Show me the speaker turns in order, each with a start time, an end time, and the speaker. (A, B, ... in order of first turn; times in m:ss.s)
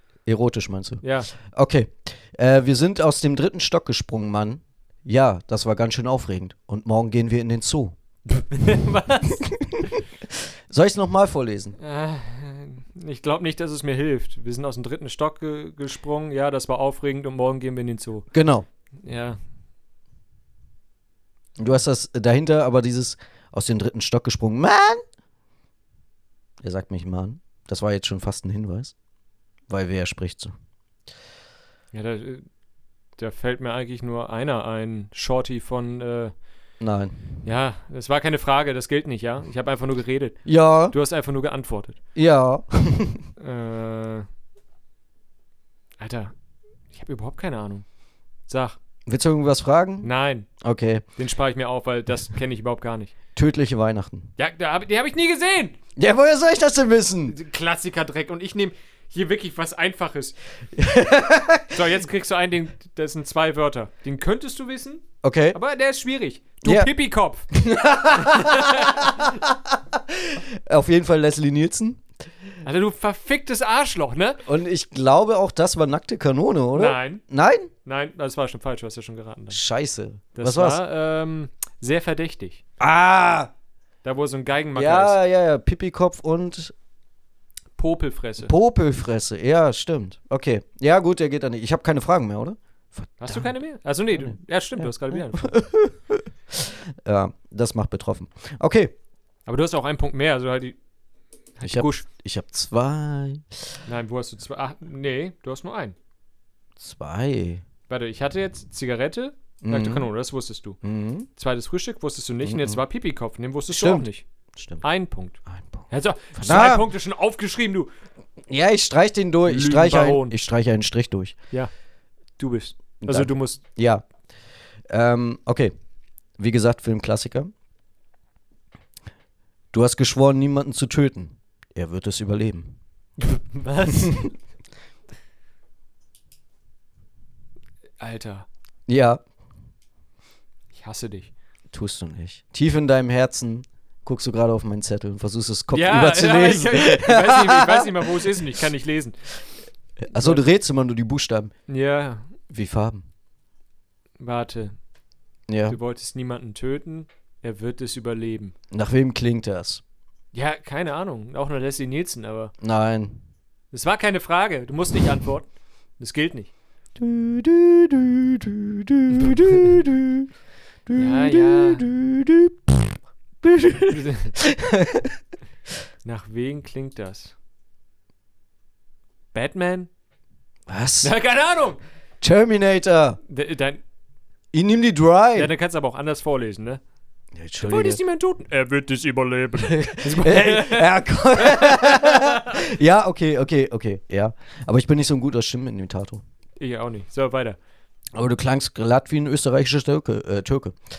0:00.2-0:08.0 A
0:01.0-0:01.3 B
0:08.3-0:09.4 B
0:09.3-0:11.8 A
0:11.8-0:18.3 B
0:18.3-0:18.6 A
0:19.0-0:19.4 B
0:21.6-0:25.0 A
0:26.6-0:28.9 A
0:29.7-0:30.5 A
0:31.9-0:32.4 B
0:33.2-0:36.3 B
0:36.8-0:37.2 A
0:37.4-0:42.0 B
0:40.4-0:40.9 A
0:42.1-0:43.2 A
0:43.4-0:44.3 B
0:46.0-0:46.3 B
0:46.9-0:47.8 B
0:48.5-0:48.8 B
0:49.1-0:50.1 A
0:50.0-0:50.5 B
0:50.6-0:51.0 A
0:51.2-0:53.1 B
0:53.4-0:54.3 A
0:54.4-0:55.8 B
0:56.0-0:57.3 A
0:57.3-1:00.4 B
1:00.7-1:01.9 A
1:01.7-1:07.5 B
1:05.2-1:05.6 A
1:06.6-1:06.9 A
1:07.5-1:12.0 A
1:08.1-1:09.3 B
1:12.6-1:14.4 B
1:14.4-1:17.7 A
1:16.7-1:17.2 B
1:17.8-1:19.6 B
1:19.5-1:20.8 A
1:20.4-1:22.6 B
1:22.8-1:23.5 A
1:24.0-1:25.2 B
1:24.7-1:26.7 A
1:27.8-1:28.5 B
1:28.4-1:33.5 A
1:33.2-1:35.5 B
1:34.2-1:38.9 A
1:39.5-1:40.8 B
1:41.6-1:42.0 B
1:41.6-1:43.6 A
1:43.8-1:46.0 B
1:46.8-1:47.6 A
1:47.9-1:50.8 B
1:49.6-1:50.1 A
1:50.8-1:51.3 A
1:51.4-1:54.2 B
1:52.4-1:52.8 A
1:53.7-1:54.8 A
1:54.8-1:57.9 B
1:55.5-1:56.9 A
1:58.5-2:01.4 A
1:59.5-2:00.4 B
2:02.4-2:03.6 B
2:03.0-2:04.0 A
2:04.9-2:05.7 A
2:06.4-2:07.5 A
2:09.7-2:12.8 A
2:13.2-2:14.3 B
2:13.9-2:14.3 A
2:18.0-2:18.5 B
2:18.9-2:19.2 A
2:20.7-2:21.3 B
2:21.7-2:28.4 A
2:25.7-2:29.2 B
2:30.0-2:31.5 A
2:30.1-2:30.4 B
2:31.7-2:32.3 B
2:32.5-2:33.0 A
2:34.2-2:34.7 B
2:35.5-2:35.8 A
2:35.7-2:38.5 B
2:38.7-2:39.8 A
2:40.3-2:42.5 B
2:42.6-2:43.2 A
2:43.7-2:45.5 B
2:46.0-2:46.5 B
2:47.0-2:50.3 A
2:50.9-2:55.2 A
2:50.9-2:51.9 B
2:53.9-2:54.3 B
2:56.0-2:57.3 B
2:59.3-2:59.9 B
3:00.7-3:01.1 A
3:01.0-3:01.8 B
3:02.2-3:03.2 A
3:03.3-3:03.8 B
3:04.5-3:05.5 A
3:05.3-3:06.8 B
3:07.3-3:08.0 A
3:07.6-3:12.6 B
3:09.5-3:16.2 A
3:16.6-3:17.6 B
3:18.1-3:20.8 A